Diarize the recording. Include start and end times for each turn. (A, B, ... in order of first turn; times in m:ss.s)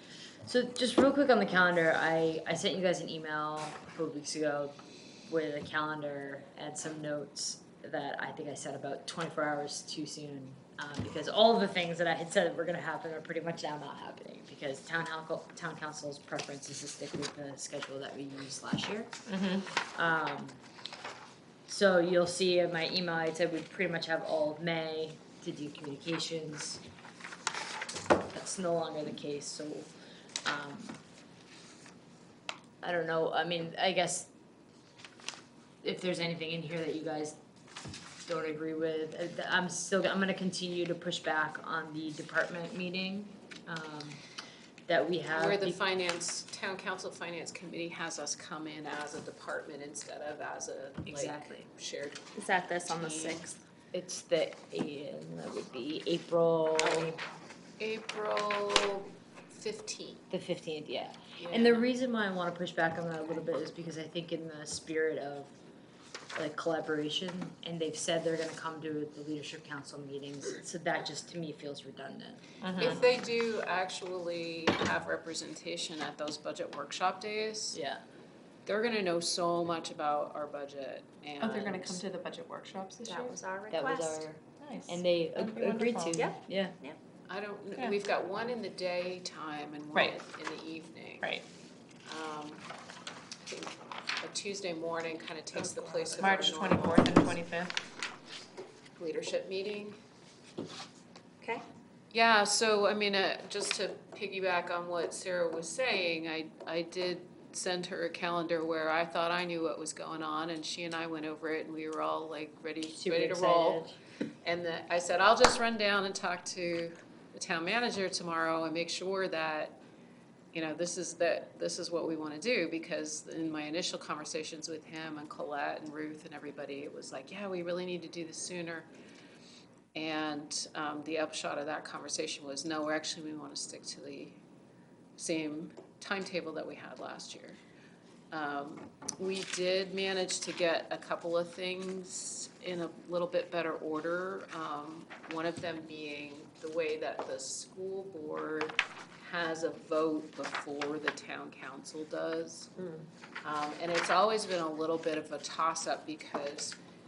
0:00.4-0:19.1 A
0:19.3-0:19.7 B
0:19.9-0:20.6 A
0:21.6-0:26.8 A
0:28.3-0:29.9 A
0:30.4-0:31.0 A
0:32.8-0:34.3 A
0:35.8-0:37.4 A
0:38.2-0:44.2 A
0:44.9-0:45.8 A
0:45.3-0:52.3 C
0:51.0-0:51.6 A
0:52.3-0:53.6 D
0:52.9-0:53.4 C
0:53.9-0:57.2 A
0:56.8-0:57.1 C
0:57.8-1:00.2 C
1:00.3-1:05.5 A
1:01.4-1:01.9 C
1:06.3-1:13.2 A
1:12.6-1:13.0 B
1:12.8-1:17.8 C
1:17.7-1:18.0 A
1:18.6-1:22.0 C
1:21.4-1:23.4 B
1:23.0-1:24.2 D
1:23.7-1:26.7 A
1:24.6-1:26.3 B
1:26.1-1:27.0 D
1:27.3-1:31.3 C
1:32.0-1:32.6 C
1:33.4-1:37.4 C
1:36.2-1:37.7 B
1:39.0-1:40.0 C
1:42.1-1:53.8 C
1:52.9-1:54.0 A
1:54.4-1:59.8 C
2:00.5-2:08.9 C
2:09.9-2:14.4 C
2:15.2-2:17.6 C
2:18.3-2:32.7 C
2:32.8-2:33.0 D
2:33.4-2:36.8 C